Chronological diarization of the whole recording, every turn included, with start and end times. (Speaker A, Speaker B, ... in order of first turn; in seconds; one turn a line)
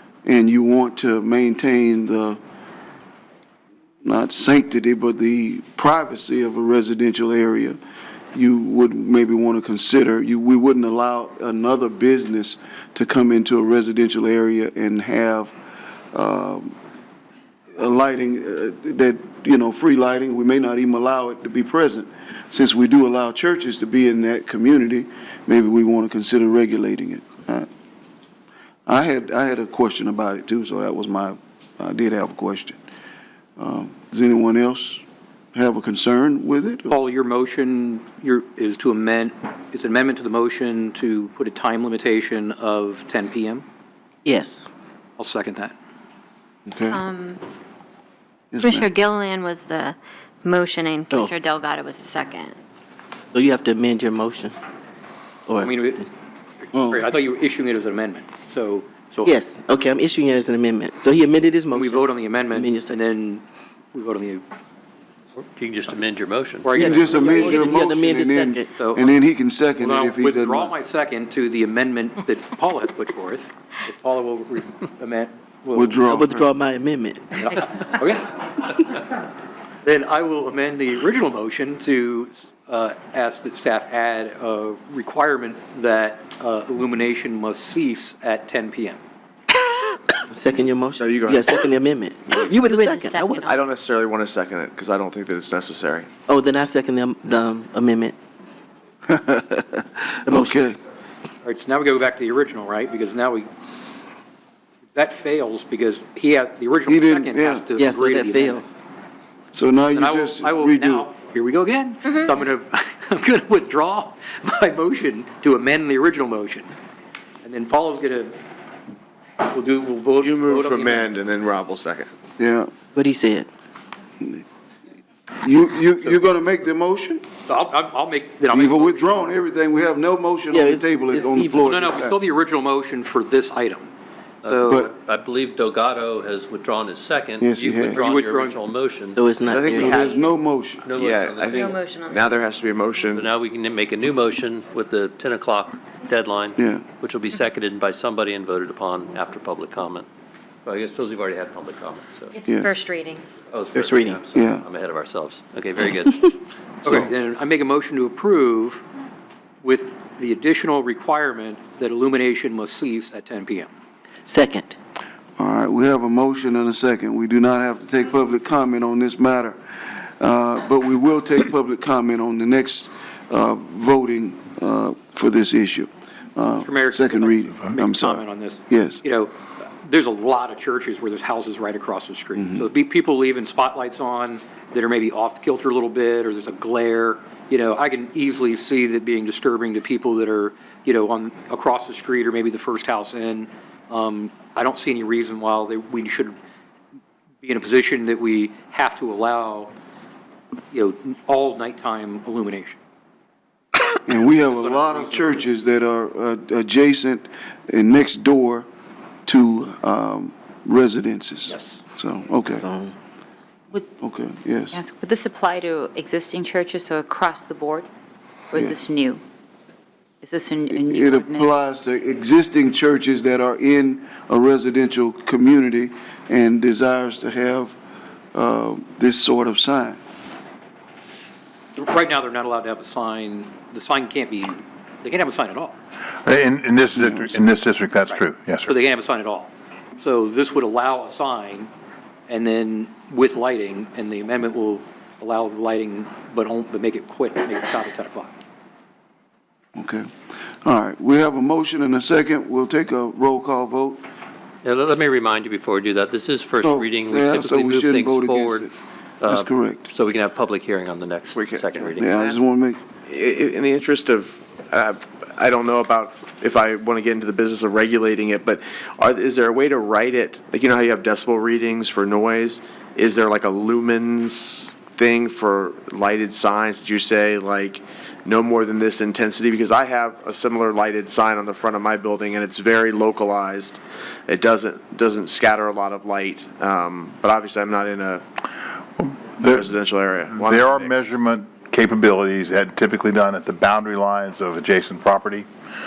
Speaker A: 0.2-2.4
Speaker A: 4.0-7.8
Speaker A: 8.3-15.5
Speaker A: 16.1-16.8
Speaker A: 17.8-27.7
Speaker A: 28.9-32.8
Speaker A: 33.6-35.0
Speaker A: 35.5-36.9
Speaker B: 36.9-43.6
Speaker C: 44.2-44.7
Speaker B: 45.2-45.7
Speaker A: 46.7-47.0
Speaker D: 46.9-47.4
Speaker A: 48.5-48.9
Speaker D: 48.6-52.6
Speaker C: 53.3-54.5
Speaker C: 55.5-55.7
Speaker B: 55.6-56.1
Speaker B: 56.6-59.3
Speaker A: 56.7-57.0
Speaker C: 59.2-63.0
Speaker B: 61.7-64.4
Speaker E: 65.3-67.0
Speaker B: 66.6-67.7
Speaker A: 66.8-70.7
Speaker C: 66.8-68.7
Speaker B: 68.8-69.1
Speaker B: 69.8-76.0
Speaker A: 75.7-76.4
Speaker C: 76.0-77.4
Speaker B: 77.4-79.0
Speaker B: 79.8-89.0
Speaker C: 90.3-93.5
Speaker F: 91.0-91.7
Speaker D: 92.6-93.6
Speaker F: 93.4-96.1
Speaker C: 96.3-98.2
Speaker A: 99.1-100.8
Speaker C: 100.3-100.6
Speaker B: 101.4-103.5
Speaker B: 104.9-108.6
Speaker A: 106.9-107.7
Speaker C: 107.8-108.8
Speaker A: 109.5-111.1
Speaker B: 109.9-116.7
Speaker B: 117.4-118.3
Speaker B: 119.4-121.1
Speaker F: 120.2-122.1
Speaker A: 122.4-122.7
Speaker C: 122.9-123.5
Speaker A: 125.4-127.2
Speaker B: 127.5-129.3
Speaker A: 128.5-132.2
Speaker C: 130.5-131.7
Speaker B: 131.6-133.9
Speaker E: 134.4-139.6
Speaker B: 134.4-134.9
Speaker A: 137.4-138.0
Speaker B: 137.9-138.6
Speaker C: 139.1-140.0
Speaker F: 139.5-140.2
Speaker A: 139.8-140.9
Speaker D: 140.0-140.3
Speaker E: 140.8-141.7
Speaker F: 140.9-143.3
Speaker D: 141.6-142.3
Speaker E: 143.1-150.1
Speaker A: 146.6-146.8
Speaker E: 150.6-152.3
Speaker D: 152.3-153.2
Speaker E: 153.5-156.4
Speaker C: 153.7-154.2
Speaker A: 154.3-154.6
Speaker B: 156.8-158.8
Speaker B: 159.6-163.7
Speaker C: 164.3-164.8
Speaker A: 165.4-179.0
Speaker B: 176.6-196.3
Speaker A: 182.3-182.7
Speaker B: 197.4-199.7
Speaker B: 200.7-202.8
Speaker A: 204.1-208.7
Speaker B: 204.2-205.4
Speaker A: 209.2-212.7
Speaker B: 211.5-211.8
Speaker C: 212.6-212.9
Speaker A: 214.0-214.8
Speaker G: 214.7-217.9
Speaker G: 218.5-219.2
Speaker G: 220.2-221.5
Speaker A: 220.7-227.7
Speaker A: 228.3-230.0
Speaker B: 231.8-235.7
Speaker H: 236.2-238.7
Speaker A: 236.9-237.4
Speaker B: 238.1-241.7
Speaker B: 242.3-248.3
Speaker A: 249.7-250.1
Speaker A: 250.6-254.0
Speaker E: 254.6-262.1
Speaker A: 256.6-258.7
Speaker A: 259.2-259.9
Speaker F: 261.3-262.4
Speaker A: 262.0-262.8
Speaker F: 263.1-288.2
Speaker H: 289.0-289.7
Speaker F: 289.4-291.1
Speaker H: 290.3-295.5